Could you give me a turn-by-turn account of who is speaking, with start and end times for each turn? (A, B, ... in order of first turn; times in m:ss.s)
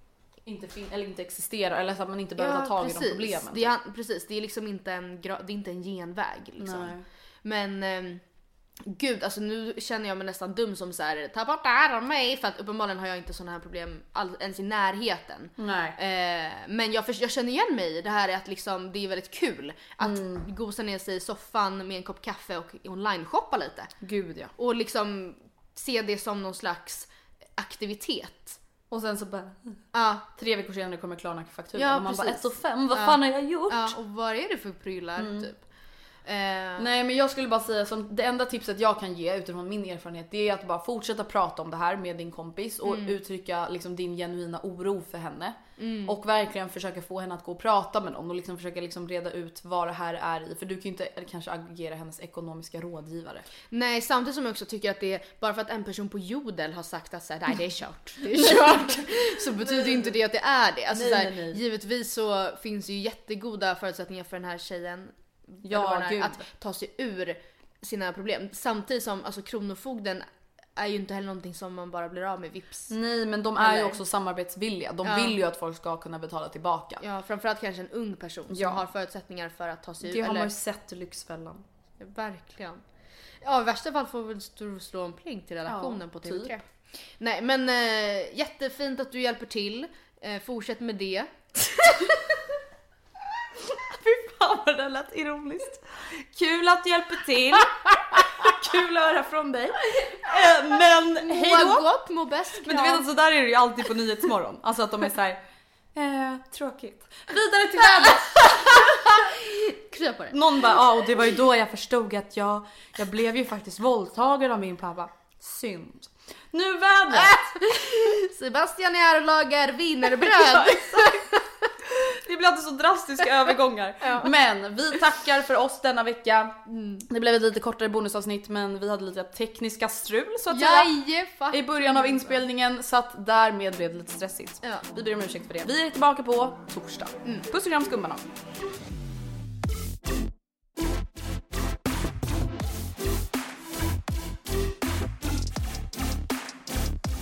0:00.5-0:03.7 A
0:02.4-0:08.2 B
0:06.6-0:07.0 A
0:08.8-0:23.9 B
0:15.6-0:16.0 A
0:20.0-0:20.4 A
0:24.0-0:24.5 A
0:24.6-0:28.6 B
0:28.9-0:29.8 A
0:29.9-0:30.2 B
0:30.3-0:34.0 A
0:31.8-0:35.6 B
0:35.2-0:35.5 A
0:36.2-0:36.9 B
0:36.8-0:53.4 A
0:42.8-0:43.1 B
0:45.8-0:46.2 B
0:53.7-1:10.2 B
0:58.3-1:00.1 A
1:00.9-1:01.6 A
1:05.6-1:06.5 A
1:10.8-1:12.9 B
1:12.9-1:17.0 A
1:13.6-1:14.0 B
1:15.0-1:15.4 B
1:17.0-1:20.5 B
1:18.5-1:18.8 A
1:20.0-1:21.6 A
1:22.0-1:22.8 B
1:23.4-1:26.6 B
1:25.6-1:26.5 A
1:27.2-1:32.3 B
1:33.7-1:41.8 A
1:41.3-1:43.0 B
1:42.6-1:45.4 A
1:45.9-1:48.9 A
1:48.2-1:50.4 B
1:50.3-1:57.7 A
1:57.1-2:01.4 B
2:00.2-2:01.2 A
2:01.9-2:11.0 A
2:04.0-2:04.3 B
2:06.7-2:07.0 B
2:10.5-2:12.4 B
2:11.5-2:18.2 A